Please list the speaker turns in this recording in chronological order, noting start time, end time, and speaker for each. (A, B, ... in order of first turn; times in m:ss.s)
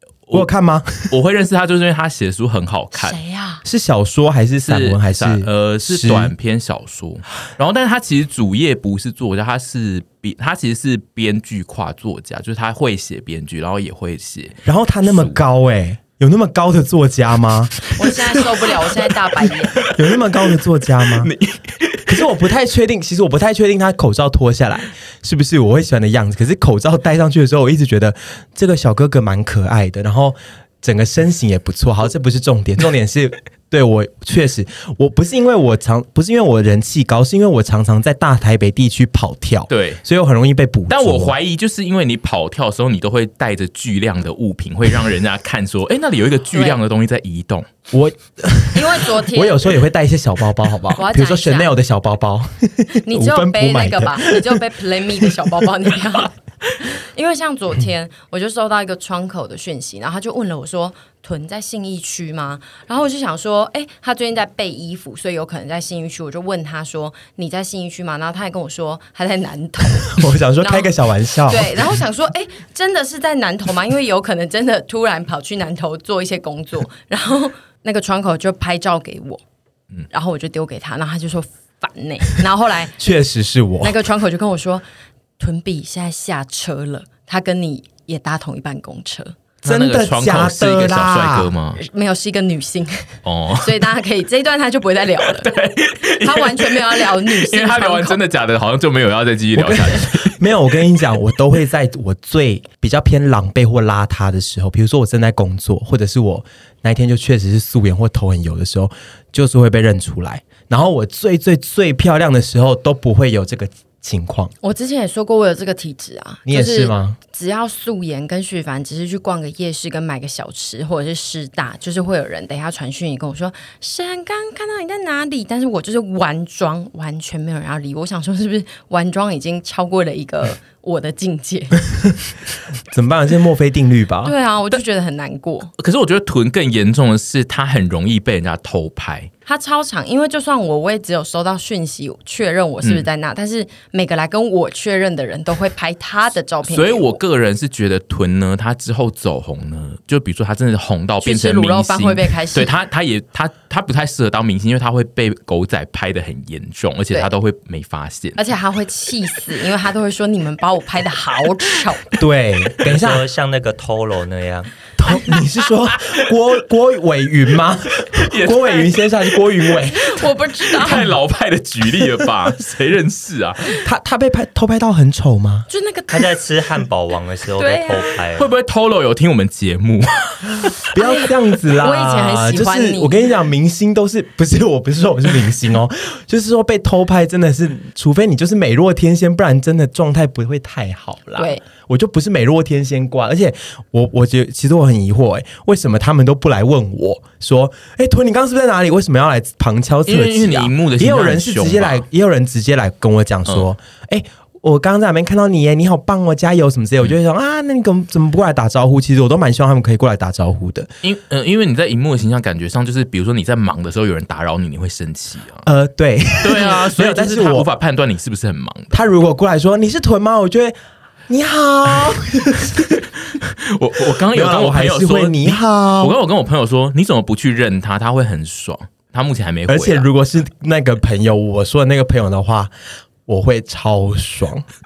0:00.3-0:01.1 A
0:01.1-0:03.2 B
0:02.9-0:03.6 C
0:03.6-0:06.3 A
0:04.6-0:15.4 B
0:14.6-0:18.4 A
0:18.0-0:19.7 C
0:19.8-0:21.3 A
0:21.1-0:22.3 B
0:22.1-0:41.4 A
0:39.7-0:40.0 B
0:40.9-0:47.7 B
0:46.5-0:46.8 C
0:47.9-0:54.6 A
0:48.7-0:49.7 C
0:51.0-0:51.7 C
0:53.0-1:10.9 C
0:55.3-0:55.6 A
1:10.0-1:12.0 A
1:11.5-1:19.4 C
1:20.1-1:23.0 C
1:23.0-1:24.0 A
1:23.8-1:24.8 C
1:25.4-1:29.3 C
1:29.6-1:31.8 B
1:29.6-1:31.5 A
1:31.8-1:35.6 C
1:33.2-1:33.9 B
1:35.2-1:40.4 B
1:36.1-1:38.2 C
1:39.5-1:54.5 A
1:54.6-2:11.9 C
1:56.4-1:57.2 A
2:12.9-2:14.3 A
2:14.2-2:15.7 C
2:15.8-2:19.3 B
2:19.4-2:27.2 C
2:22.8-2:23.1 B
2:26.6-2:38.4 B
2:31.2-2:32.7 C
2:38.4-2:42.1 C
2:42.2-2:43.2 A
2:42.8-2:44.7 D
2:45.0-2:50.1 A
2:48.1-2:48.9 B
2:49.9-2:51.1 C
2:50.6-2:53.8 B
2:53.8-2:55.7 A
2:55.7-2:56.4 C
2:56.1-2:58.5 D
2:57.5-2:58.2 C
2:58.3-3:00.7 B
3:00.9-3:30.9 A
3:01.0-3:01.3 C
3:01.8-3:03.3 C
3:11.4-3:11.6 C
3:20.0-3:22.0 B
3:31.0-3:35.6 B
3:35.6-3:37.7 A
3:36.4-3:39.0 B
3:38.9-3:40.8 A
3:41.3-3:43.0 A
3:43.2-3:50.1 B
3:44.3-3:46.1 A
3:49.7-3:52.7 A
3:53.2-3:54.6 A